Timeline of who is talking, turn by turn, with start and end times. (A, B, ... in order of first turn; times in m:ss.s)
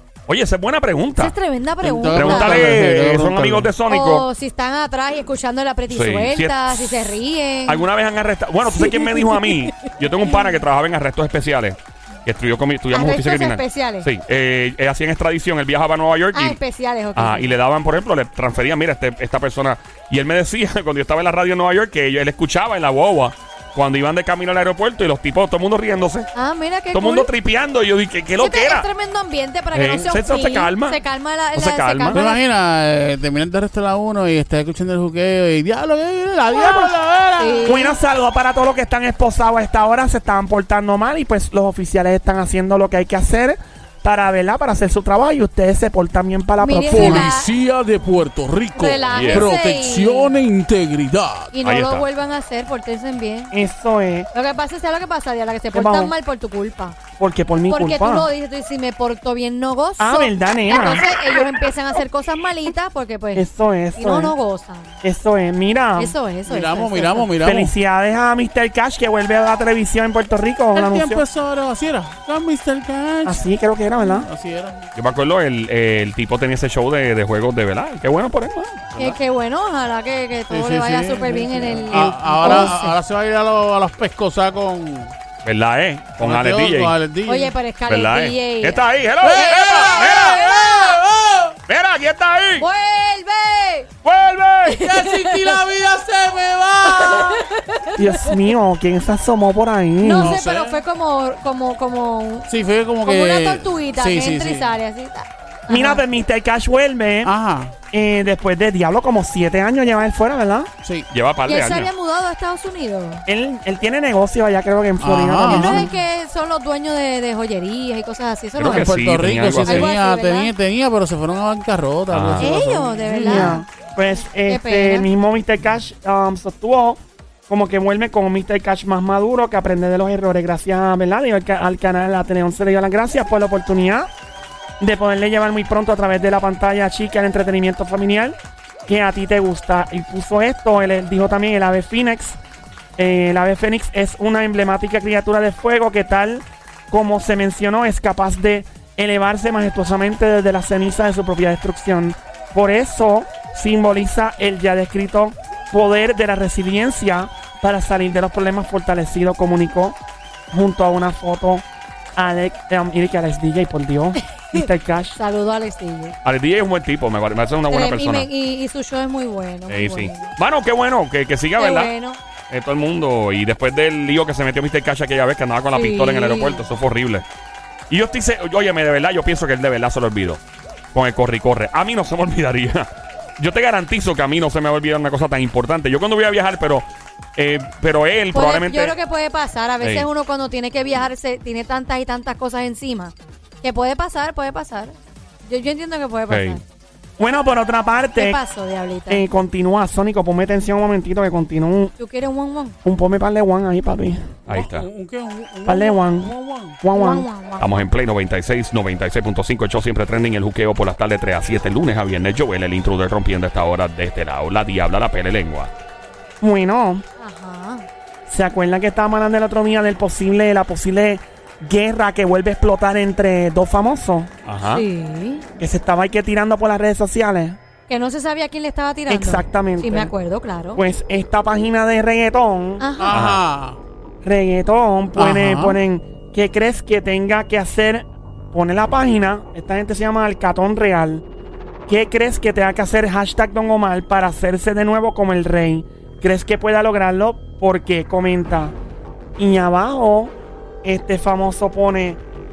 0:00.3-0:01.3 A
0:01.2-0:02.8 B
0:01.8-0:03.7 C
0:02.1-0:04.3 A
0:03.9-0:07.8 B
0:05.9-0:07.2 A
0:07.7-0:16.6 A
0:08.7-0:10.6 B
0:12.9-0:14.1 B
0:16.3-0:17.6 B
0:17.2-0:26.3 A
0:26.4-0:27.3 B
0:26.9-0:28.9 A
0:28.4-0:32.4 B
0:29.7-0:31.0 A
0:31.5-0:32.3 A
0:32.1-0:37.8 C
0:36.5-0:36.9 D
0:37.4-0:38.0 B
0:37.6-0:47.3 D
0:46.6-0:47.5 B
0:46.9-0:51.5 C
0:48.8-0:50.3 B
0:49.1-0:49.5 A
0:51.5-0:53.5 B
0:51.6-0:52.0 A
0:53.5-0:54.3 D
0:54.3-0:57.0 B
0:55.7-0:56.1 D
0:57.2-0:58.3 D
0:57.7-1:05.0 B
1:00.0-1:01.1 D
1:03.4-1:04.3 D
1:05.0-1:06.2 D
1:06.0-1:07.3 B
1:06.5-1:07.7 C
1:07.4-1:11.2 D
1:10.7-1:13.4 C
1:13.2-1:14.3 D
1:14.0-1:14.9 C
1:15.0-1:19.2 A
1:19.0-1:23.0 B
1:20.5-1:25.1 C
1:22.4-1:22.7 D
1:25.4-1:27.0 A
1:26.2-1:27.5 C
1:27.3-1:31.0 B
1:27.9-1:30.4 A
1:29.2-1:31.6 C
1:31.7-1:32.7 A
1:32.6-1:33.9 B
1:34.0-1:34.8 A
1:34.7-1:35.6 B
1:34.8-1:37.4 C
1:36.9-1:38.4 B
1:38.0-1:40.4 D
1:40.0-1:42.5 B
1:40.1-1:40.8 C
1:42.5-1:44.7 C
1:43.0-1:46.0 B
1:45.7-1:47.3 D
1:47.2-1:47.7 C
1:47.9-1:50.7 D
1:50.8-1:51.1 C
1:51.1-1:51.9 A
1:51.5-1:53.2 B
1:53.3-1:55.9 D
1:55.0-1:55.9 C
1:55.5-1:59.0 B
1:58.6-1:59.9 A
1:58.7-2:03.6 C
1:59.7-2:00.5 B
2:02.1-2:02.5 A
2:02.4-2:03.6 B
2:03.2-2:14.1 D
2:04.5-2:05.1 B
2:14.8-2:18.4 D
2:18.9-2:22.4 D
2:23.0-2:40.0 D
2:40.5-2:41.6 D
2:42.2-2:45.2 D
2:44.4-2:46.2 B
2:46.2-2:48.3 A
2:47.7-2:50.4 B
2:49.7-2:51.9 A
2:51.6-2:52.2 B
2:52.5-2:57.3 A
2:55.7-2:56.6 B
2:57.9-3:00.4 A
3:00.9-3:06.8 A
3:07.4-3:09.0 A
3:08.3-3:15.0 B
3:09.8-3:10.1 A
3:15.5-3:16.6 B
3:16.3-3:16.6 A
3:17.2-3:18.4 D
3:18.2-3:19.2 B
3:19.1-3:21.9 D
3:22.0-3:22.8 B
3:22.8-3:24.3 D
3:24.5-3:24.9 A
3:24.5-3:26.8 C
3:25.7-3:27.3 D
3:26.9-3:27.8 B
3:27.6-3:35.7 A
3:36.4-3:37.0 D
3:37.2-3:37.9 B
3:38.3-3:44.3 D
3:44.4-3:44.8 A
3:44.7-3:45.4 B
3:45.6-3:47.6 D
3:47.9-3:50.8 B
3:49.1-3:50.1 D
3:50.8-3:52.8 D
3:52.8-3:53.2 B
3:53.0-3:53.8 C
3:53.1-3:53.4 A
3:54.2-4:01.2 D
3:55.2-3:55.8 C
4:01.9-4:08.8 D
4:09.4-4:10.3 D
4:10.8-4:12.2 D